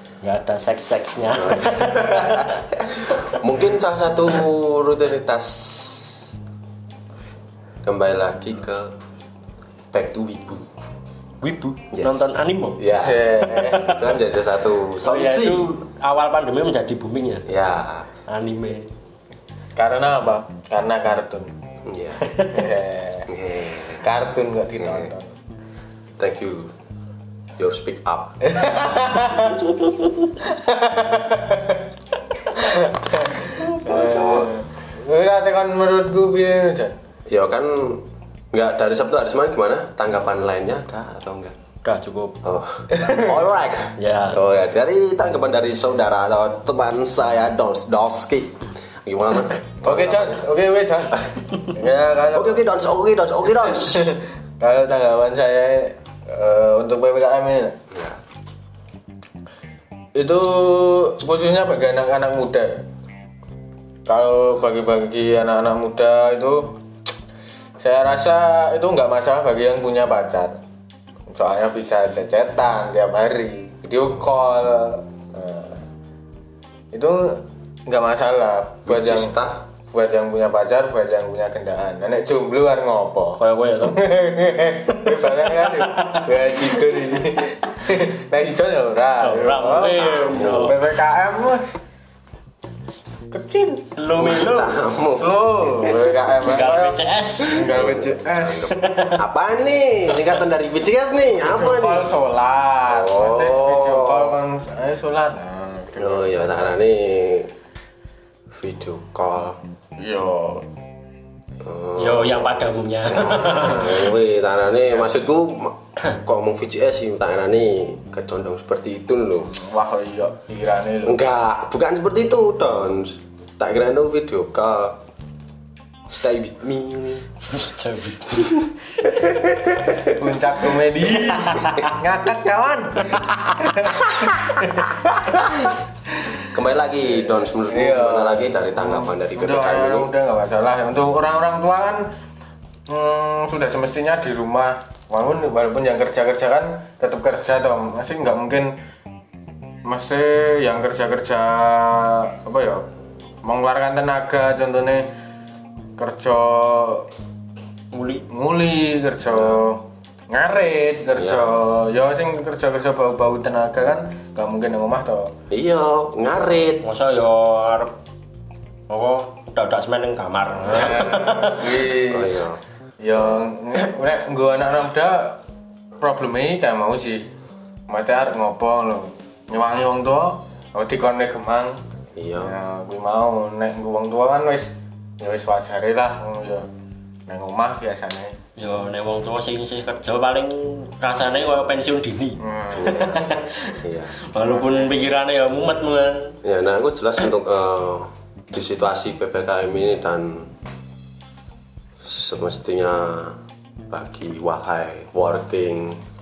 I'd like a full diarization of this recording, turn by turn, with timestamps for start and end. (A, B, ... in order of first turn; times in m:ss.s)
0:00.2-0:02.6 A
0:01.4-0:06.3 B
0:07.8-0:08.9 B
0:09.9-0:10.7 B
0:11.4-0:12.8 A
0:11.9-0:15.7 B
0:13.0-0:14.0 C
0:13.6-0:14.1 A
0:15.0-0:17.5 A
0:17.5-0:18.1 B
0:18.3-0:18.9 A
0:19.8-0:21.5 C
0:21.8-0:22.2 B
0:22.4-0:23.3 C
0:23.3-0:24.0 B
0:24.0-0:25.3 C
0:24.8-0:25.1 B
0:26.2-0:26.7 B
0:27.6-0:28.4 B
0:28.4-0:29.7 C
0:30.4-0:31.9 C
0:32.5-0:37.0 C
0:33.8-0:34.5 B
0:37.3-0:41.6 B
0:41.8-0:42.4 A
0:42.4-0:50.4 B
0:42.9-0:43.4 C
0:44.0-0:44.4 A
0:49.8-0:52.6 C
0:52.3-0:54.1 B
0:53.7-0:57.8 C
0:57.9-0:58.2 B
1:00.2-1:02.8 C
1:04.1-1:06.8 C
1:07.8-1:10.6 C
1:11.3-1:15.8 C
1:16.9-1:19.4 C
1:18.9-1:19.7 B
1:19.9-1:31.8 C
1:23.4-1:24.1 A
1:25.0-1:26.8 A
1:29.2-1:30.8 A
1:30.2-1:30.7 B
1:33.3-1:33.9 C
1:34.0-1:35.0 A
1:34.2-1:35.9 B
1:35.2-1:38.8 C
1:36.4-1:37.8 A
1:37.6-1:42.1 B
1:38.7-1:39.2 A
1:41.3-1:46.8 C
1:42.9-1:44.3 B
1:46.0-1:47.5 B
1:48.5-1:49.6 B
1:50.0-1:50.7 C
1:51.6-1:59.5 B
1:52.0-1:54.1 A
1:59.5-2:01.2 C
2:01.0-2:05.0 B
2:06.1-2:07.3 B
2:07.5-2:08.7 A
2:09.0-2:10.1 B
2:10.0-2:15.7 C
2:11.5-2:11.8 A
2:11.6-2:11.9 B
2:14.1-2:14.6 B
2:16.5-2:20.1 B
2:17.2-2:22.1 C
2:22.9-2:28.7 C
2:29.8-2:32.9 C
2:33.4-2:35.1 C
2:36.0-2:37.1 C
2:37.9-2:38.3 A
2:38.3-2:45.3 C
2:41.2-2:41.5 B
2:45.5-2:46.9 B
2:46.8-2:47.9 A
2:48.9-2:51.6 A
2:50.6-2:52.3 C
2:52.0-2:52.6 B
2:53.0-2:55.4 C
2:56.0-2:57.3 C
2:57.9-3:01.8 C
3:02.2-3:02.5 B
3:02.4-3:06.7 C
3:07.3-3:08.4 C
3:08.6-3:16.4 A
3:12.4-3:13.4 C
3:12.8-3:13.2 B
3:13.8-3:14.1 B
3:14.4-3:15.1 C
3:16.4-3:20.5 B
3:22.0-3:23.4 B
3:23.9-3:26.0 B